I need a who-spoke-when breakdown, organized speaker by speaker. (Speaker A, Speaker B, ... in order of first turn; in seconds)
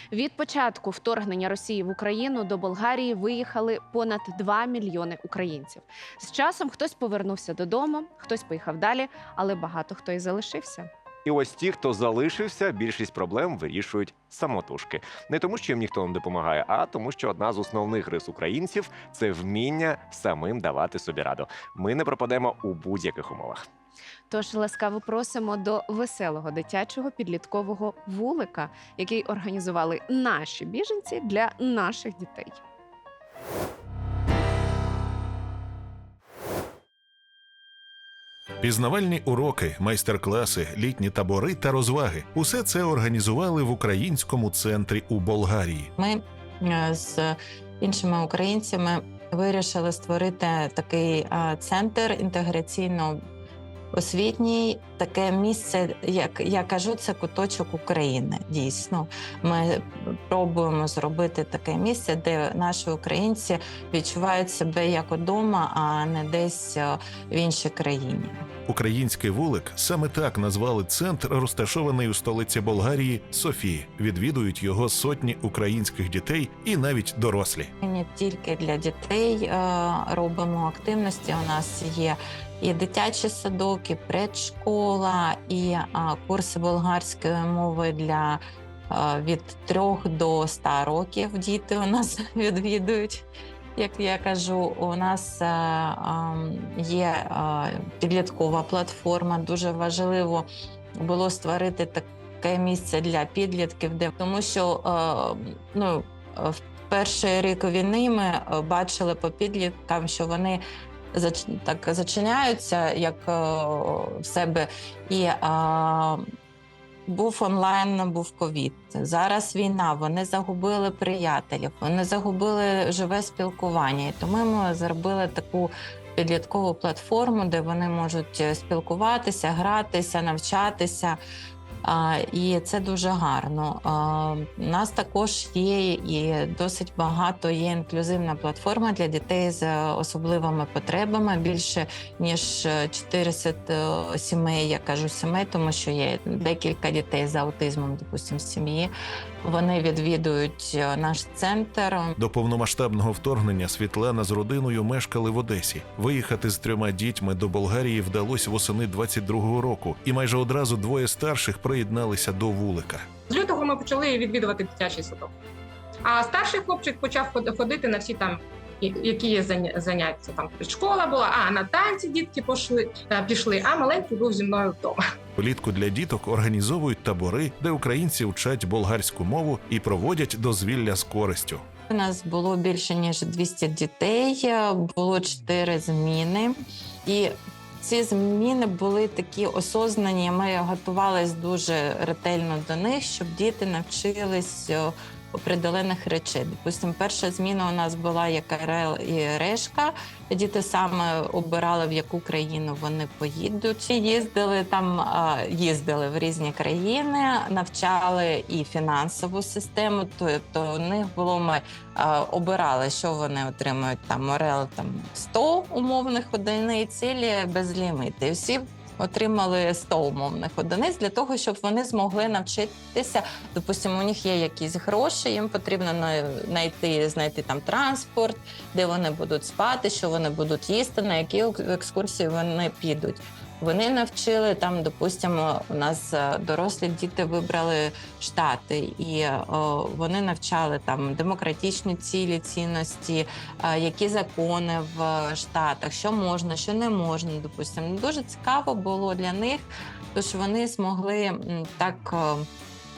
Speaker A: 0.1-10.9, 24.3-32.6
Speaker B: 11.2-23.7
Speaker C: 38.6-45.9, 68.7-77.7, 152.2-163.1, 175.4-181.7
Speaker D: 46.0-53.2, 53.9-68.5, 77.8-100.5, 101.0-110.6, 111.1-116.2, 117.1-131.2, 131.8-148.9, 149.4-152.1, 181.9-252.5
Speaker E: 163.3-165.3, 166.1-175.0